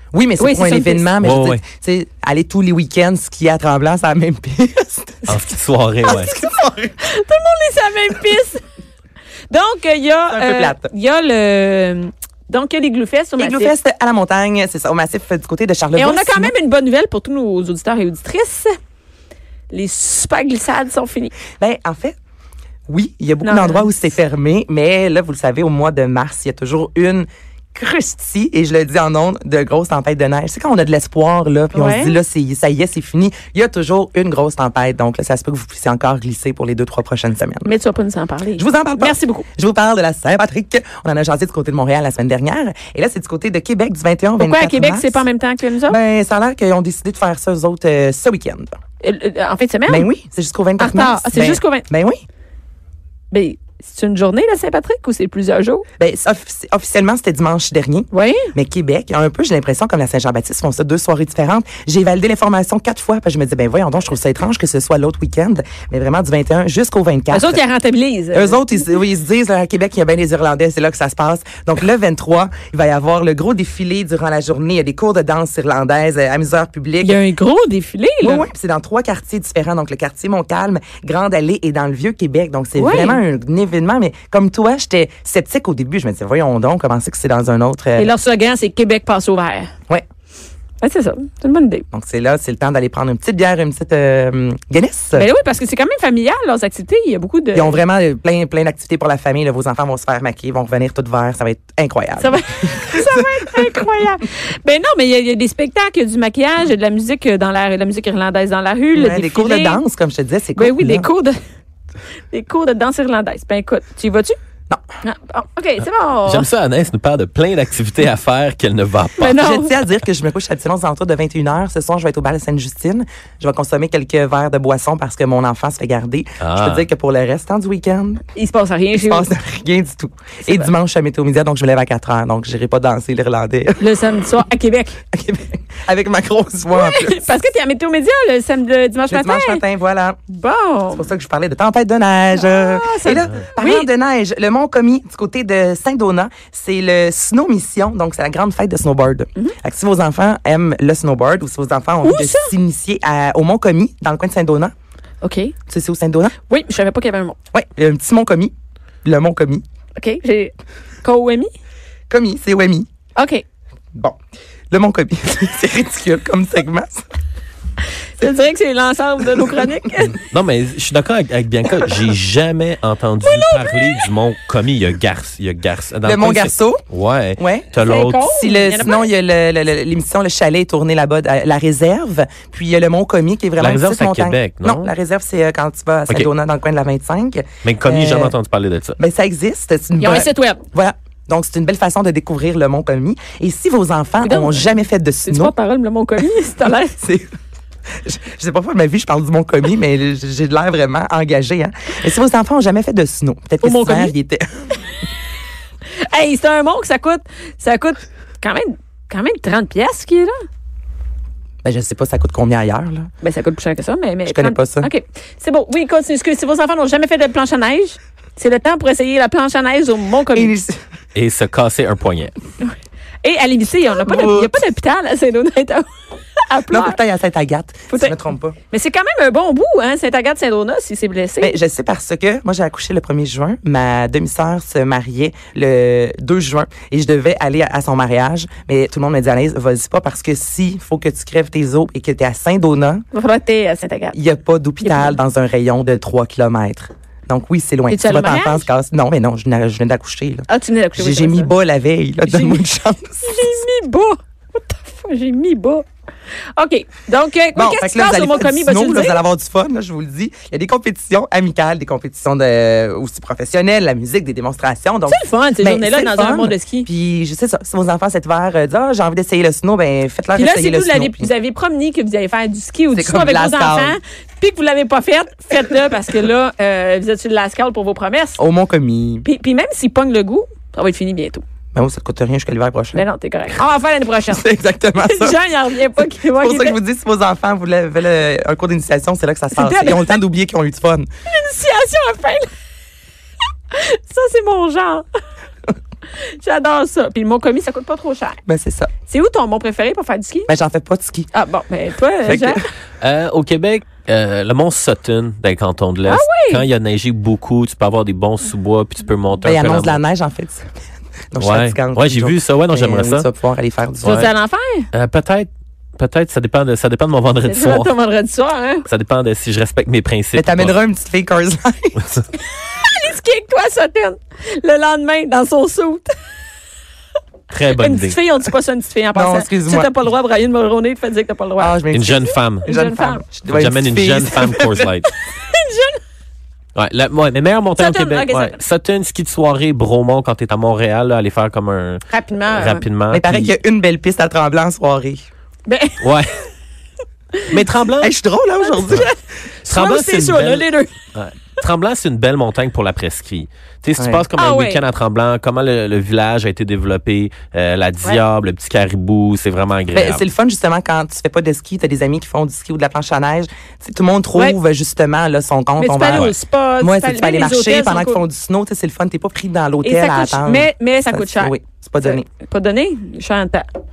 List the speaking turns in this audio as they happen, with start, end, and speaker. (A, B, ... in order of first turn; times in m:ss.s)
0:00.1-0:05.4 A
0:00.4-0:01.1 B
0:01.2-0:01.6 C
0:05.3-0:06.3 C
0:06.0-0:07.0 A
0:07.0-0:08.6 B
0:09.5-0:13.7 B
0:10.3-0:10.9 A
0:13.4-0:16.5 A
0:16.0-0:18.7 B
0:19.7-0:21.3 B
0:21.6-0:22.1 A
0:22.9-0:37.7 A
0:23.4-0:23.9 B
0:31.7-0:32.2 B
0:37.6-0:39.5 B
0:38.6-0:45.2 A
0:44.4-0:46.0 B
0:45.9-0:48.8 A
0:49.0-0:50.1 B
0:49.9-0:52.2 A
0:50.8-0:51.9 B
0:53.3-0:55.8 B
0:56.0-1:07.6 A
0:58.1-0:58.5 B
1:07.3-1:08.6 B
1:08.3-1:17.2 A
1:17.0-1:18.5 B
1:18.2-1:28.1 A
1:22.8-1:23.2 B
1:28.0-1:29.7 B
1:30.8-1:31.9 B
1:31.9-1:35.3 A
1:35.1-1:37.8 B
1:37.5-1:43.7 A
1:42.2-1:49.8 B
1:48.9-1:51.1 A
1:50.6-1:51.4 B
1:52.3-1:54.4 B
1:55.0-1:56.5 B
1:56.2-1:59.4 C
1:59.2-1:59.8 B
1:59.4-2:08.2 A
2:06.4-2:06.8 C
2:08.4-2:09.3 B
2:08.9-2:14.0 A
2:13.8-2:15.0 B
2:15.1-2:17.3 A
2:16.7-2:19.6 B
2:19.1-2:20.2 A
2:20.3-2:21.1 B
2:20.9-2:34.7 A
2:22.3-2:23.9 B
2:32.0-2:32.5 B
2:35.2-2:35.6 B
2:35.7-2:36.3 A
2:36.4-2:37.4 B
2:37.5-2:38.5 A
2:39.0-2:39.6 A
2:40.0-2:41.5 B
2:42.1-2:42.9 A
2:43.2-2:43.4 B
2:44.7-2:47.0 A
2:48.2-2:50.3 B
2:50.3-2:58.2 C
2:53.2-2:54.1 B
2:56.0-2:56.8 A
2:57.4-3:08.4 A
2:57.8-2:59.1 B
3:03.6-3:04.9 C
3:07.6-3:09.0 C
3:09.0-3:15.5 A
3:10.0-3:10.6 B
3:14.2-3:14.6 B
3:15.2-3:17.0 B
3:16.9-3:17.3 A
3:18.0-3:24.5 A
3:23.6-3:24.1 B
3:26.1-3:30.3 B
3:31.6-3:33.1 A
3:33.2-3:40.5 B
3:34.2-3:34.9 A
3:40.3-3:40.8 A
3:41.1-3:42.3 C
3:43.2-3:45.9 B
3:44.0-3:44.5 A
3:46.4-3:47.0 B
3:46.7-3:48.6 A
3:47.9-3:48.2 B
3:48.7-3:51.6 B
3:51.4-4:03.0 A
4:03.1-4:04.2 B
4:04.1-4:13.5 A
4:04.8-4:05.2 B
4:07.9-4:08.7 B
4:10.5-4:11.5 B
4:12.2-4:12.6 B
4:13.2-4:15.9 B
4:16.6-4:19.2 B
4:17.5-4:31.3 A
4:25.1-4:26.9 B
4:30.4-4:38.4 B
4:32.9-4:34.0 A
4:38.4-4:39.2 A
4:39.2-4:41.4 B
4:41.7-4:43.0 A
4:42.9-4:44.4 B
4:44.3-4:45.4 A
4:45.0-4:46.8 B
4:46.3-4:51.1 A
4:49.5-4:50.1 B
4:51.3-4:52.5 B
4:53.7-4:55.0 B
4:56.4-4:58.4 B
4:58.5-4:58.9 A
4:59.1-5:00.5 B
5:00.5-5:01.3 A
5:01.3-5:02.6 B
5:02.2-5:02.6 A
5:03.0-5:10.0 C
5:06.0-5:06.6 B
5:09.4-5:10.7 A
5:11.3-5:14.2 A
5:11.4-5:13.3 C
5:14.0-5:14.3 C
5:14.0-5:14.9 B
5:14.9-5:17.9 C
5:17.4-5:18.8 B
5:18.9-5:20.8 C
5:20.3-5:22.2 A
5:22.4-5:26.1 B
5:27.5-5:28.2 C
5:27.8-5:31.8 B
5:29.1-5:29.9 A
5:31.6-5:34.9 A
5:31.9-5:32.7 C
5:32.6-5:33.2 B
5:33.5-5:35.1 C
5:35.2-5:36.0 B
5:36.8-5:43.5 C
5:37.8-5:38.6 B
5:42.1-5:42.8 B
5:43.1-5:45.2 A
5:45.7-5:46.0 B
5:46.0-5:46.4 C
5:47.5-5:48.1 C
5:48.0-5:49.1 A
5:48.6-5:49.2 B
5:49.6-6:00.2 C
5:49.7-5:50.9 B
5:54.0-5:54.2 A
5:54.4-5:54.8 B
5:59.9-6:12.2 A
6:05.8-6:08.2 B
6:09.8-6:13.7 B